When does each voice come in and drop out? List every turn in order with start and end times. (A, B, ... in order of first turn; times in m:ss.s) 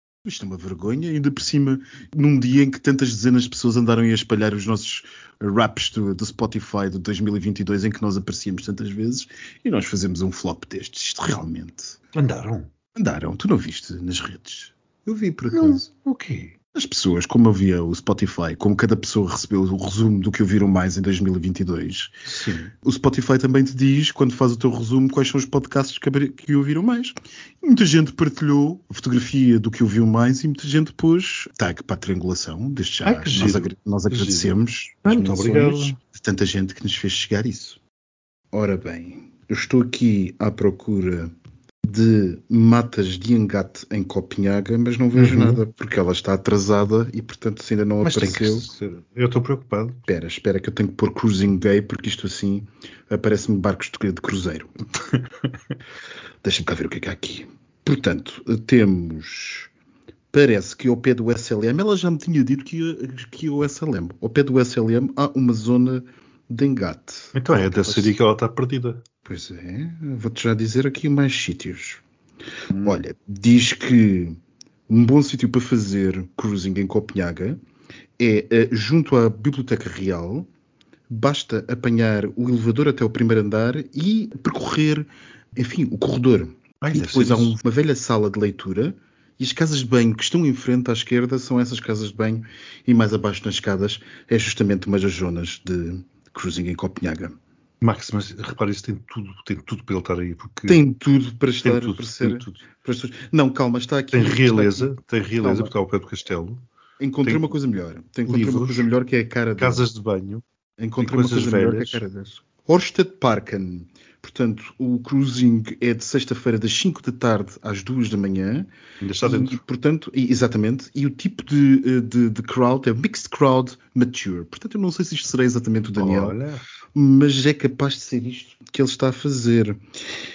0:00.2-0:12.0 A
0:12.1-0:12.7 B
0:13.0-0:15.9 A
0:15.5-0:16.5 B
0:16.7-0:22.2 A
0:22.2-0:22.7 B
0:22.8-0:37.8 A
0:33.0-0:36.0 B
0:38.5-0:41.3 A
0:41.8-0:48.7 A
0:45.1-0:45.6 B
0:48.0-0:50.0 B
0:50.1-0:54.7 A
0:55.1-0:55.4 B
0:56.4-0:59.7 A
1:00.3-1:08.1 A
1:07.3-1:09.0 B
1:09.2-1:12.0 A
1:12.7-1:13.0 B
1:12.8-1:14.4 A
1:14.9-1:17.6 A
1:18.2-1:20.5 A
1:21.1-1:37.4 A
1:26.8-1:27.6 B
1:37.8-1:40.8 B
1:40.7-1:45.7 A
1:41.6-1:42.6 B
1:44.1-1:46.6 B
1:47.0-1:49.8 A
1:47.2-1:47.5 B
1:48.2-1:48.9 B
1:49.6-1:50.4 B
1:50.8-2:06.4 A
1:51.0-1:52.0 B
1:59.0-1:59.6 B
2:06.0-2:06.6 B
2:06.9-2:09.8 A